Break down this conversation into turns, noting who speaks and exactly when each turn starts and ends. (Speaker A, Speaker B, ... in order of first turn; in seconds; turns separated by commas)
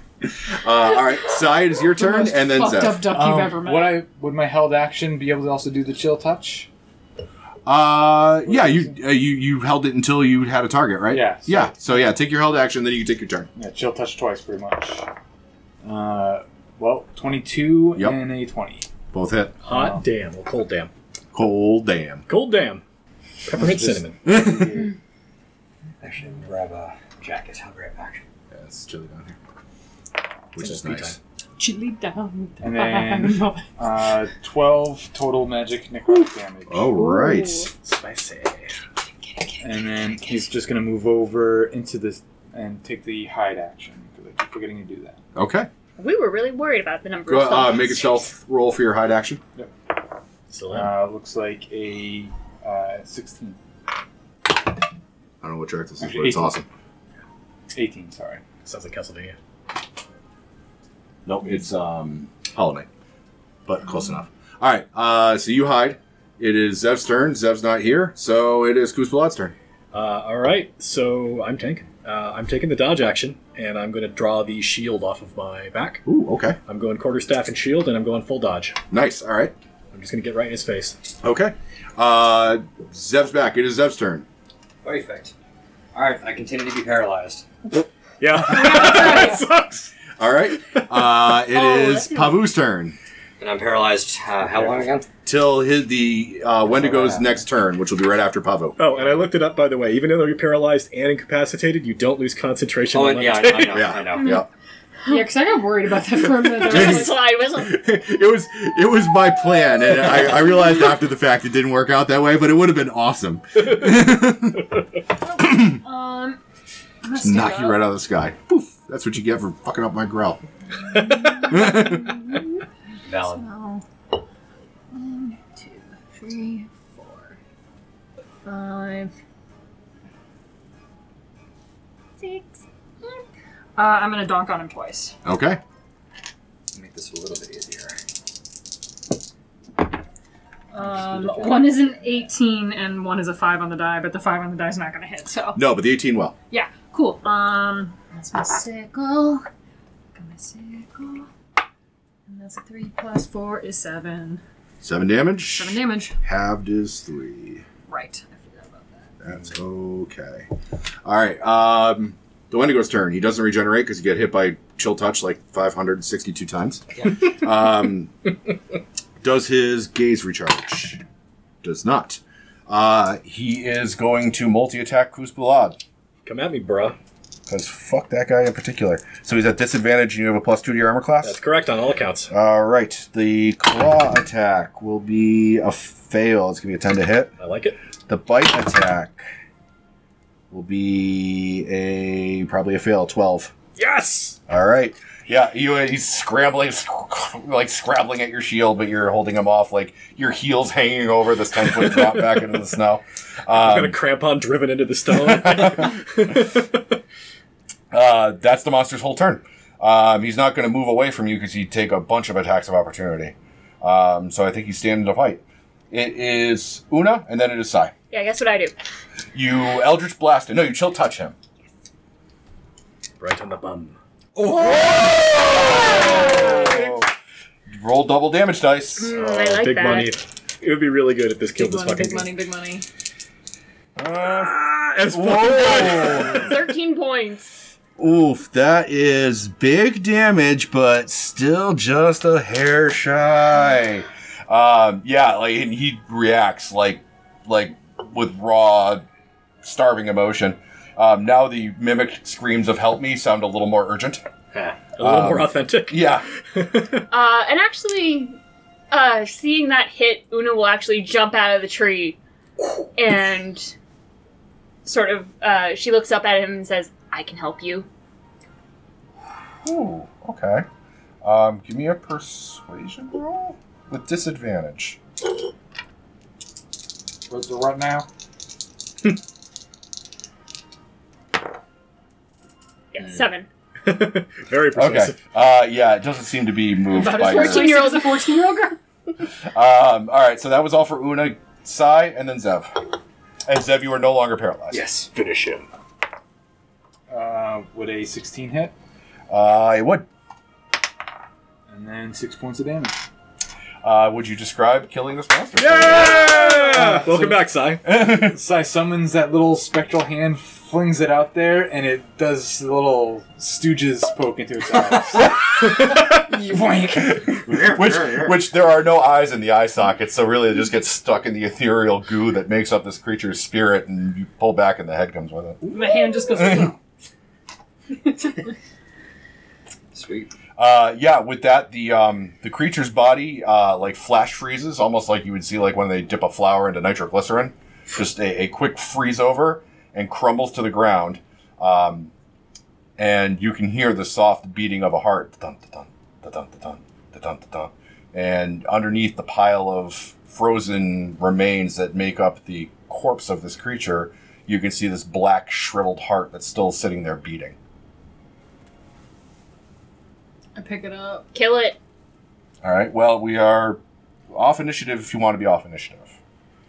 Speaker A: 0.2-3.1, Speaker B: 2.0-4.0, Speaker C: 3.1-6.7, Speaker A: 7.7-13.5, Speaker C: 8.5-9.0, Speaker C: 11.1-11.7, Speaker C: 13.6-15.1, Speaker C: 15.8-18.9, Speaker A: 19.1-19.6, Speaker D: 19.6-20.9, Speaker C: 19.7-20.0, Speaker A: 21.3-22.2, Speaker D: 22.3-22.8, Speaker D: 23.4-24.2, Speaker C: 23.5-24.9, Speaker A: 24.2-24.8, Speaker E: 26.0-28.2, Speaker A: 28.5-29.4, Speaker A: 30.5-31.2, Speaker D: 30.6-31.2, Speaker B: 31.6-33.7, Speaker C: 32.6-36.9, Speaker A: 36.7-37.7, Speaker F: 37.1-37.4, Speaker D: 37.8-38.8, Speaker C: 39.6-45.2, Speaker A: 45.4-45.7, Speaker F: 46.0-48.2, Speaker A: 47.3-49.4, Speaker D: 50.5-50.9, Speaker C: 50.7-53.6, Speaker A: 55.4-56.7, Speaker C: 56.0-56.6, Speaker C: 57.7-58.5, Speaker D: 58.6-59.4, Speaker A: 61.2-62.9, Speaker A: 63.7-69.5, Speaker D: 69.9-76.0, Speaker A: 76.0-76.6, Speaker D: 76.7-78.8, Speaker A: 78.9-79.5, Speaker D: 79.9-81.0, Speaker A: 81.2-84.3, Speaker E: 84.8-85.3, Speaker E: 85.9-87.5, Speaker D: 88.2-89.9, Speaker A: 90.2-93.0, Speaker D: 90.6-91.1, Speaker F: 91.5-92.4, Speaker E: 93.4-95.1, Speaker A: 95.2-98.8, Speaker E: 96.7-97.2, Speaker D: 98.8-103.9, Speaker E: 102.9-104.4, Speaker A: 103.7-104.5, Speaker F: 104.2-104.4, Speaker B: 105.1-107.2, Speaker F: 106.5-107.8, Speaker A: 106.7-114.7, Speaker B: 115.2-116.4, Speaker A: 115.4-115.8, Speaker B: 117.0-117.8, Speaker A: 117.2-120.4, Speaker B: 121.1-122.4, Speaker A: 121.3-122.3, Speaker E: 123.0-123.5, Speaker B: 123.2-123.8, Speaker B: 124.9-127.4, Speaker B: 128.4-129.1, Speaker B: 132.2-133.2, Speaker B: 133.8-135.2, Speaker A: 135.2-135.6, Speaker E: 136.7-137.9, Speaker B: 140.7-145.6, Speaker E: 140.8-141.9, Speaker A: 145.6-146.3, Speaker B: 146.5-149.4, Speaker B: 150.2-151.3, Speaker B: 152.3-154.4, Speaker A: 154.8-157.6, Speaker B: 155.5-156.2, Speaker B: 157.9-159.1, Speaker A: 159.2-160.5, Speaker A: 161.0-168.1, Speaker A: 169.2-171.0, Speaker A: 171.6-175.8, Speaker D: 176.2-177.0, Speaker A: 177.5-181.4, Speaker D: 181.2-182.3, Speaker A: 182.3-187.3, Speaker D: 187.4-187.8, Speaker A: 188.1-189.2, Speaker A: 190.5-193.5, Speaker D: 193.8-194.4, Speaker A: 194.5-204.0, Speaker D: 201.7-202.4, Speaker D: 203.5-207.0, Speaker A: 205.1-205.9, Speaker A: 207.9-217.9, Speaker F: 218.1-218.7, Speaker A: 219.3-221.4, Speaker D: 223.2-224.0, Speaker A: 224.4-227.1, Speaker F: 226.1-226.9, Speaker A: 227.7-229.2, Speaker F: 229.0-230.2, Speaker D: 229.2-232.3, Speaker B: 231.6-232.8, Speaker A: 234.0-236.5, Speaker D: 234.2-236.5, Speaker F: 236.2-237.5, Speaker A: 238.0-249.1, Speaker A: 249.6-254.2, Speaker E: 254.5-254.8, Speaker D: 255.0-257.1, Speaker A: 255.0-256.3, Speaker F: 257.1-258.4, Speaker F: 258.9-262.2, Speaker F: 263.0-263.8, Speaker F: 264.9-267.9, Speaker A: 269.6-270.7, Speaker A: 271.2-275.0, Speaker C: 277.3-278.1, Speaker F: 282.9-283.5, Speaker D: 283.9-285.2, Speaker A: 284.8-287.7, Speaker B: 286.9-288.8, Speaker F: 287.2-288.2, Speaker A: 289.4-292.8, Speaker A: 293.5-294.8, Speaker E: 294.7-295.1, Speaker D: 295.1-295.7, Speaker C: 297.1-298.7, Speaker A: 299.3-300.1, Speaker C: 301.7-303.0, Speaker A: 303.8-306.4, Speaker D: 305.6-307.8, Speaker C: 306.1-317.3, Speaker A: 307.9-308.4, Speaker A: 317.0-325.8, Speaker E: 317.4-318.4, Speaker B: 325.7-326.8, Speaker A: 326.3-326.7, Speaker E: 329.9-330.3, Speaker A: 330.6-342.1, Speaker A: 343.0-357.6, Speaker B: 360.6-361.3, Speaker F: 361.3-361.8, Speaker A: 362.6-366.1